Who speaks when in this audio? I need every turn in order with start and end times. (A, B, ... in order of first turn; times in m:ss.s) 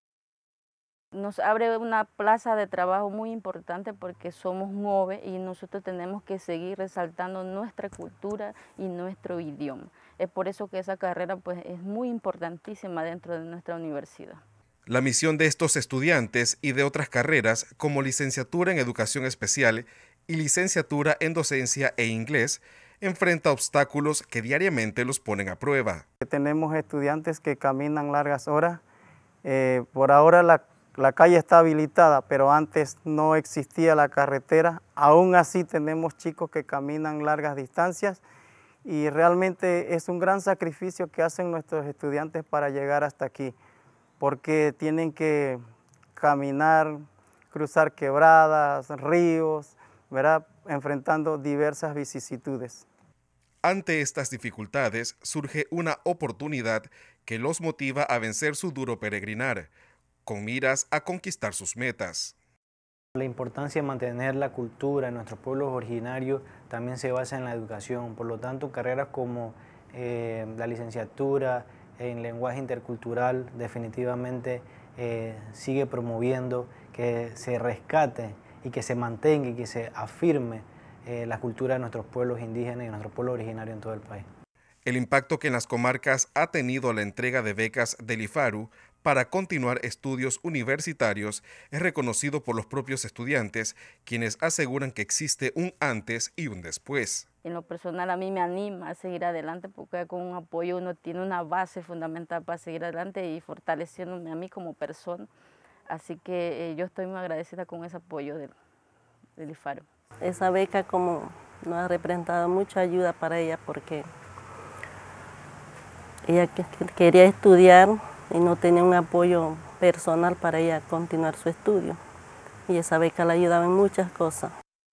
0:01.1-0:14.4 A
0:14.9-0:26.0 B
0:26.2-0:28.8 C
0:29.4-0:38.2 C
0:38.8-0:43.6 C
0:44.2-0:45.6 C
0:46.2-0:52.8 C
0:53.6-0:59.7 B
1:00.2-1:02.4 B
1:03.2-1:24.3 D
1:24.8-1:37.3 B
1:37.4-1:45.3 A
1:45.9-1:48.5 A
1:49.4-1:49.8 A
1:50.2-1:54.0 E
1:56.3-2:02.0 E
2:02.7-2:04.5 E